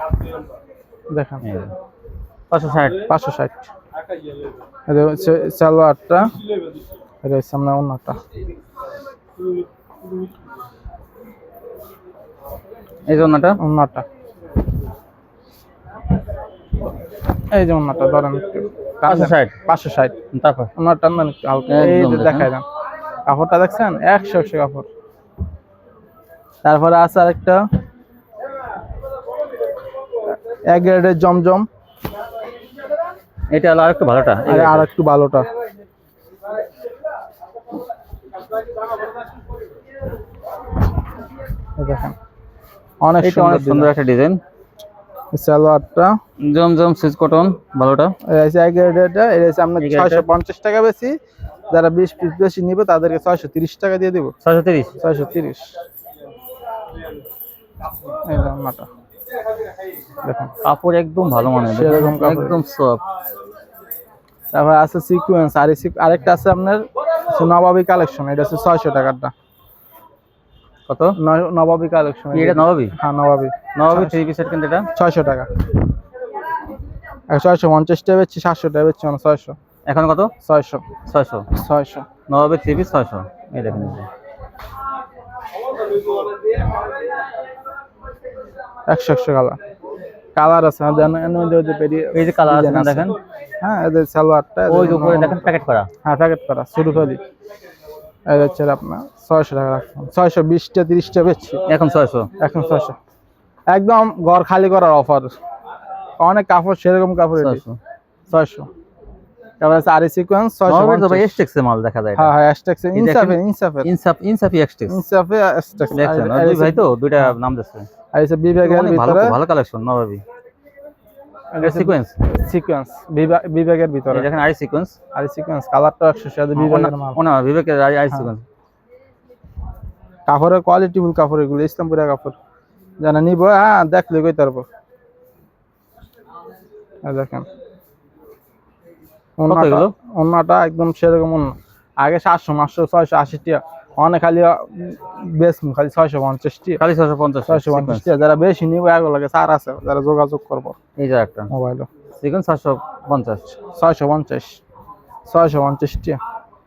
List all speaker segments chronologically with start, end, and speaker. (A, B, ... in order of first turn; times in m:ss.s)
0:01.1-0:01.4 A
0:01.4-0:01.7 B
0:02.5-0:03.0 B
0:03.0-0:03.7 A
0:04.9-0:06.3 A
0:07.2-0:08.2 A
0:13.0-0:13.6 B
0:13.6-0:14.0 A
0:17.5-0:20.2 A
0:19.0-0:19.6 B
0:20.3-0:20.7 B
0:20.8-0:22.6 A
0:21.7-0:22.5 B
0:23.3-0:24.9 A
0:26.6-0:27.6 A
0:30.7-0:31.6 A
0:33.5-0:34.9 B
0:34.5-0:35.5 A
0:41.8-0:42.1 A
0:43.0-0:43.9 A
0:43.2-0:44.4 B
0:45.3-0:46.2 A
0:46.4-0:48.2 B
0:48.2-0:51.2 A
0:49.8-0:50.2 B
0:51.7-0:54.3 A
0:54.4-0:55.0 B
0:55.0-0:55.7 A
0:58.2-0:58.9 A
1:00.2-1:00.5 A
1:00.6-1:03.0 B
1:01.7-1:02.6 A
1:04.5-1:09.3 A
1:10.9-1:11.1 B
1:11.2-1:14.2 A
1:12.3-1:12.9 B
1:13.7-1:14.9 B
1:14.9-1:15.5 A
1:17.3-1:19.6 A
1:19.8-1:20.3 B
1:20.4-1:20.9 A
1:21.0-1:21.4 B
1:21.5-1:22.0 A
1:22.3-1:24.1 B
1:28.9-1:29.6 A
1:30.4-1:37.2 A
1:32.1-1:33.2 B
1:34.7-1:35.9 B
1:38.3-1:41.6 A
1:41.7-1:42.3 B
1:42.4-1:43.0 A
1:43.7-1:45.3 A
1:46.2-1:47.6 A
1:47.4-1:47.8 B
1:48.3-1:48.7 A
1:49.6-1:51.4 A
1:50.7-1:52.3 B
1:52.2-1:53.9 A
1:52.9-1:55.0 B
1:54.9-1:57.3 A
1:55.9-1:57.9 B
1:58.1-1:59.4 A
1:58.6-2:00.2 B
2:01.5-2:04.3 A
2:01.6-2:02.2 B
2:04.1-2:05.0 B
2:05.1-2:07.2 A
2:06.5-2:08.4 B
2:10.3-2:12.4 A
2:13.0-2:14.6 A
2:17.0-2:17.5 A
2:19.4-2:26.8 A
2:19.5-2:19.9 B
2:26.8-2:28.1 B
2:27.5-2:30.8 A
2:31.0-2:31.5 B
2:31.5-2:31.9 A
2:32.1-2:33.6 B
2:33.7-2:34.6 A
2:35.3-2:36.2 A